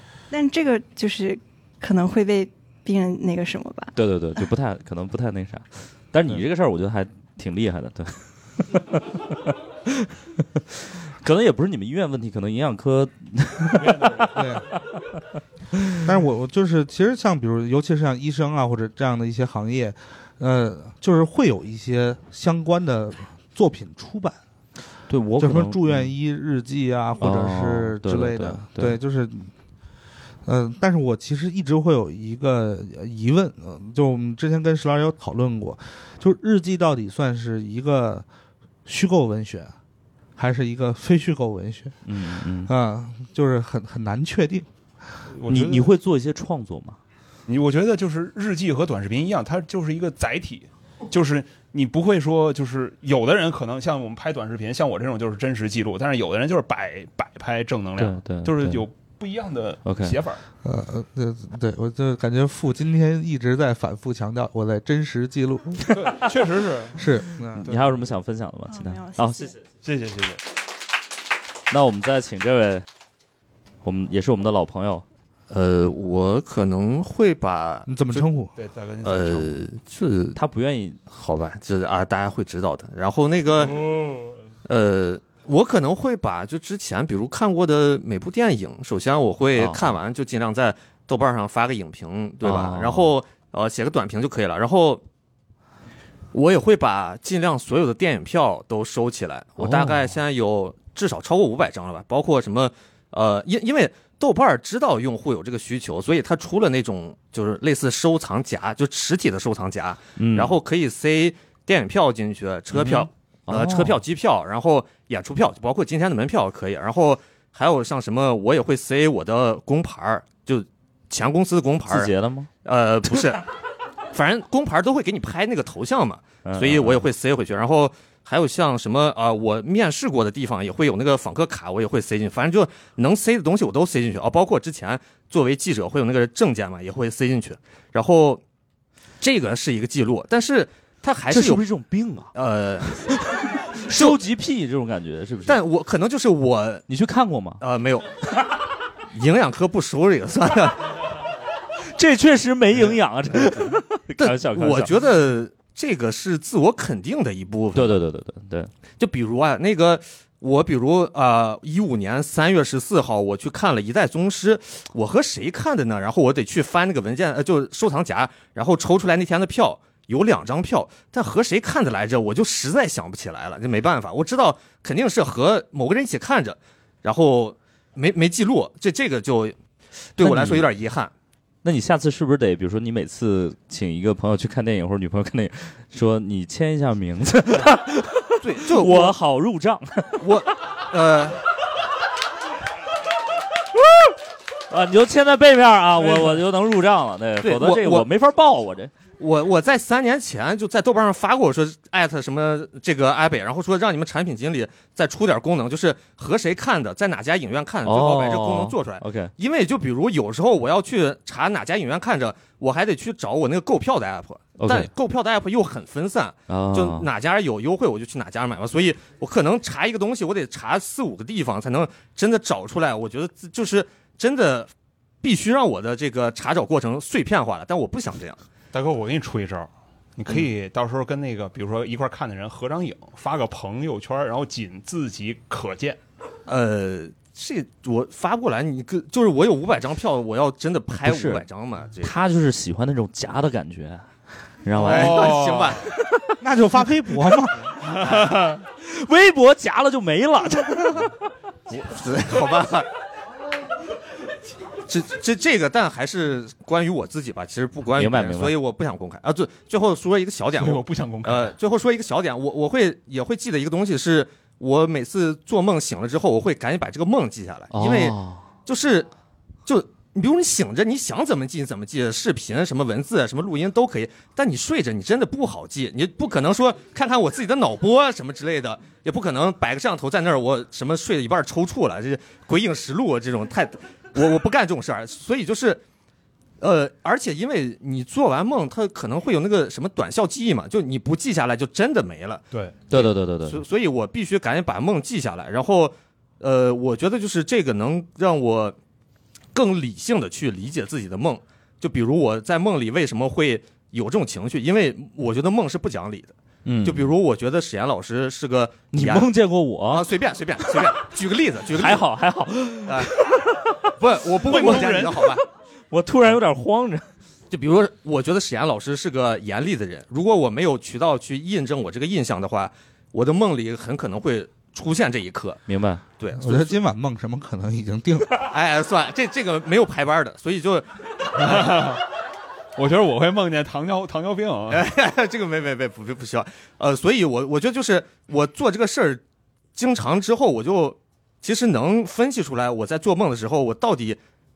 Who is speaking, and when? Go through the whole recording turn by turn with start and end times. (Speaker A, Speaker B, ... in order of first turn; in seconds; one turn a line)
Speaker A: 0.3-4.4
Speaker B: 4.0-9.2
Speaker B: 11.2-14.3
Speaker C: 13.7-14.5
Speaker D: 14.3-14.7
Speaker D: 16.0-24.4
Speaker B: 25.1-26.1
Speaker D: 25.4-29.5
Speaker B: 27.2-29.0
Speaker D: 30.4-38.3
Speaker D: 38.9-39.8
Speaker D: 40.4-42.0
Speaker B: 42.0-42.7
Speaker D: 42.7-44.7
Speaker C: 45.3-45.9
Speaker B: 45.5-47.0
Speaker C: 47.5-60.4
Speaker B: 58.0-58.9
Speaker B: 59.9-60.2
Speaker D: 60.6-65.9
Speaker C: 65.9-67.0
Speaker D: 67.0-67.7
Speaker B: 67.6-69.6
Speaker C: 67.6-68.0
Speaker A: 68.7-69.6
Speaker C: 69.8-70.4
Speaker B: 71.7-72.8
Speaker B: 73.8-75.0
Speaker E: 75.5-78.3
Speaker D: 77.9-78.5
Speaker C: 78.6-79.5
Speaker E: 79.0-80.4
Speaker B: 80.3-81.0
Speaker E: 81.1-83.9
Speaker E: 84.7-95.0
Speaker B: 89.6-90.0
Speaker B: 92.4-93.1
Speaker E: 96.3-122.1
Speaker B: 99.6-100.2
Speaker B: 110.2-110.6
Speaker B: 112.7-114.0
Speaker B: 121.9-122.5
Speaker E: 122.6-123.4
Speaker E: 124.1-138.4
Speaker B: 126.5-127.0
Speaker E: 139.2-141.7
Speaker B: 141.3-142.3
Speaker E: 142.3-143.1
Speaker B: 142.8-143.2
Speaker B: 143.8-145.6
Speaker E: 143.9-144.2
Speaker E: 145.5-146.8
Speaker B: 146.9-147.6
Speaker E: 147.6-148.3
Speaker E: 149.1-151.0
Speaker B: 151.9-154.9
Speaker E: 154.5-158.0
Speaker B: 157.7-158.7
Speaker E: 159.0-179.6
Speaker E: 180.2-181.1
Speaker B: 180.2-180.7
Speaker B: 181.6-190.2
Speaker E: 188.4-189.2
Speaker E: 190.2-191.4
Speaker B: 194.7-198.9
Speaker E: 196.0-196.4
Speaker E: 197.4-198.1
Speaker E: 199.2-224.7
Speaker B: 207.8-209.3
Speaker B: 214.6-214.9
Speaker B: 216.5-217.1
Speaker E: 225.2-228.4
Speaker C: 228.7-236.0
Speaker E: 236.5-242.1
Speaker B: 241.0-241.4
Speaker B: 242.0-244.1
Speaker B: 244.6-245.3
Speaker E: 244.8-245.9
Speaker C: 244.8-245.8
Speaker D: 246.4-247.7
Speaker E: 248.0-248.3
Speaker B: 248.1-251.2
Speaker E: 251.7-252.9
Speaker E: 254.9-269.1
Speaker B: 258.0-258.6
Speaker C: 260.6-261.6
Speaker B: 267.7-268.5
Speaker E: 269.7-285.8
Speaker E: 286.6-298.8
Speaker B: 292.9-293.6
Speaker E: 299.6-309.3
Speaker B: 306.6-307.1
Speaker B: 308.9-310.1
Speaker E: 309.9-312.0
Speaker B: 311.7-313.9
Speaker E: 312.9-313.1
Speaker E: 314.0-315.4
Speaker C: 314.4-315.3
Speaker B: 315.9-317.1
Speaker E: 317.5-325.6
Speaker B: 325.7-326.0
Speaker E: 326.2-326.8
Speaker D: 326.4-328.4
Speaker E: 328.4-331.8
Speaker C: 331.4-332.0
Speaker C: 332.8-334.8
Speaker E: 334.7-339.2
Speaker E: 339.8-344.2